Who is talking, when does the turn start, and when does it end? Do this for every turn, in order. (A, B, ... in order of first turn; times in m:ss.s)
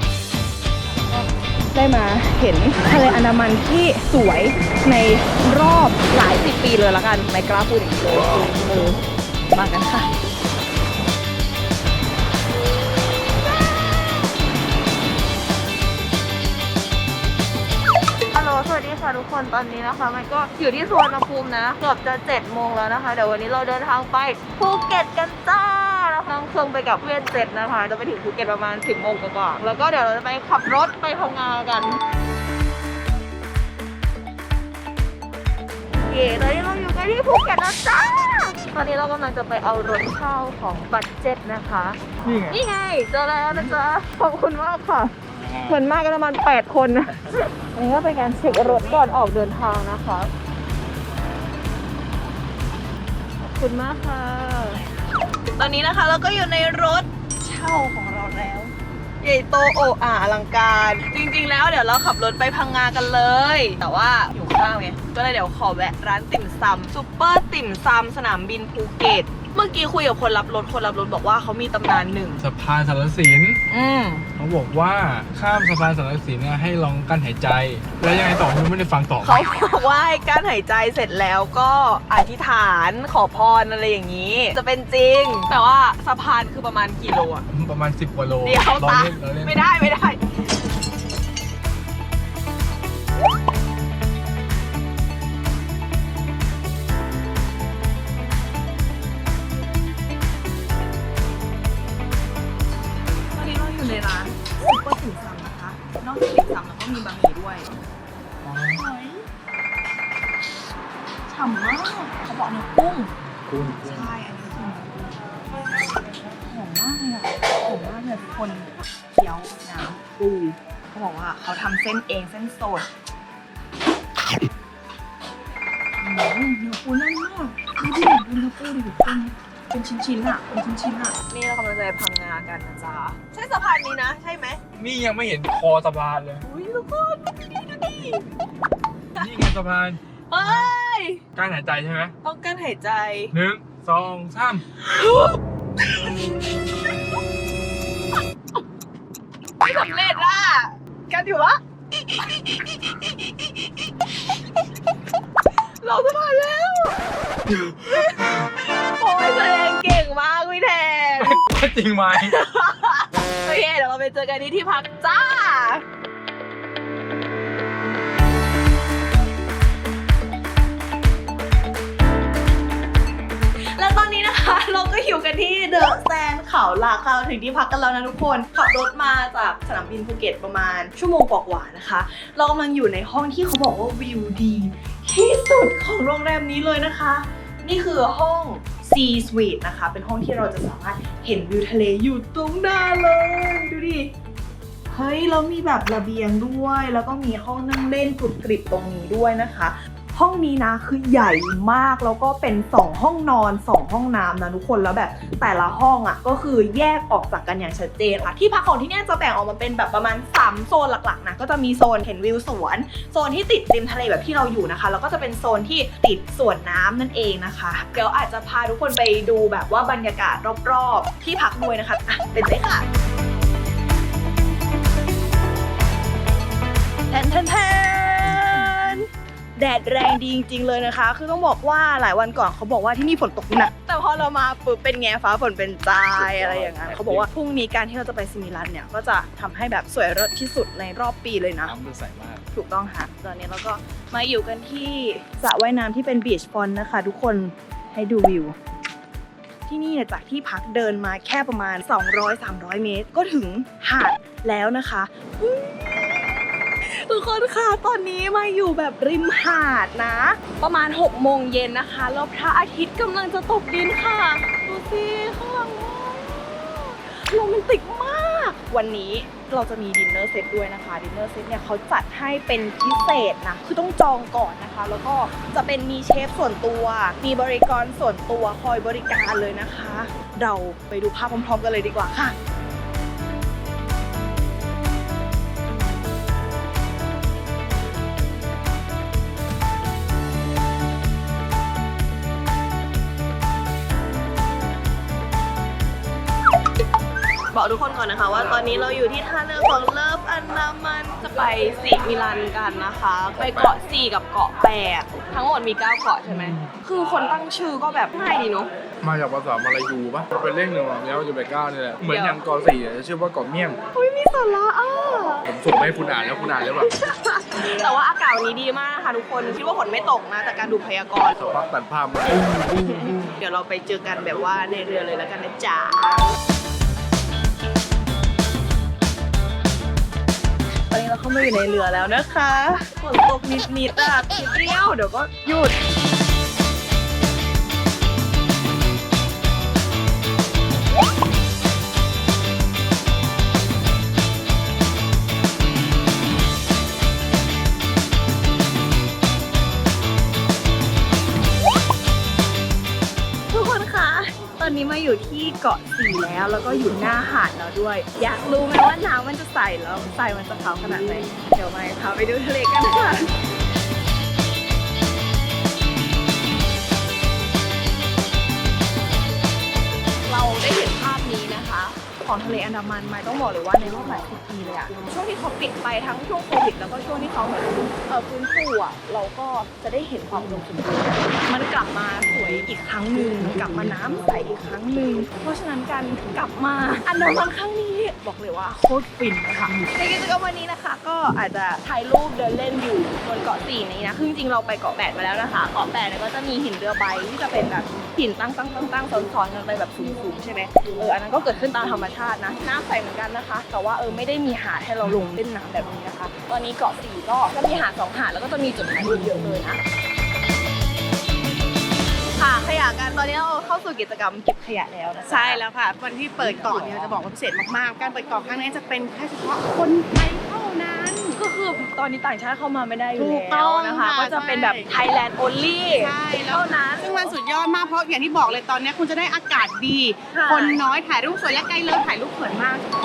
0:01.0-0:09.0 A
0:09.5-0:10.1 A
0:13.1-0:14.1 A
0:18.3-0:32.0 A
0:36.1-0:45.1 A
0:42.2-0:42.6 B
0:45.3-0:45.8 B
0:45.7-0:50.3 A
0:53.5-0:54.8 A
0:55.6-1:12.4 A
1:12.4-1:13.6 B
1:13.7-1:14.2 A
1:14.4-1:19.4 B
1:19.2-1:27.4 A
1:27.5-1:29.6 B
1:28.4-1:30.2 A
1:43.3-1:47.7 A
1:48.4-1:48.8 B
1:48.7-1:49.2 A
1:51.3-1:53.1 A
1:53.4-1:54.1 B
1:53.8-1:55.2 A
1:56.4-2:02.9 A
2:06.0-2:14.6 A
2:14.7-2:16.4 B
2:16.4-2:18.2 A
2:19.2-2:20.7 B
2:20.3-2:21.2 A
2:21.3-2:22.1 B
2:22.2-2:23.3 A
2:23.3-2:24.8 B
2:24.8-2:25.4 A
2:29.6-2:31.6 A
2:35.8-2:37.0 A
2:37.5-2:37.8 B
2:38.8-2:41.4 A
2:41.2-2:42.4 B
2:42.1-2:45.8 A
2:53.7-3:14.1 A
3:14.9-3:42.9 A
3:47.1-4:01.7 A
3:48.3-3:49.0 B
3:56.1-3:57.3 B
4:01.6-4:02.4 B
4:02.5-4:08.5 A
4:09.7-4:42.4 A
4:57.5-5:08.7 A
5:03.4-5:03.8 B
5:06.2-5:06.7 B
5:09.0-5:13.8 B
5:12.1-5:12.4 A
5:13.9-5:15.5 A
5:15.4-5:16.9 B
5:16.8-5:21.3 A
5:21.3-5:23.1 B
5:22.8-5:26.2 A
5:30.9-5:35.8 A
5:53.5-6:03.3 A
6:10.3-6:49.8 A
6:52.3-6:55.6 A
6:55.2-7:01.4 C
7:01.3-7:07.3 A
7:03.2-7:04.9 C
7:06.0-7:12.9 C
7:10.3-7:10.8 A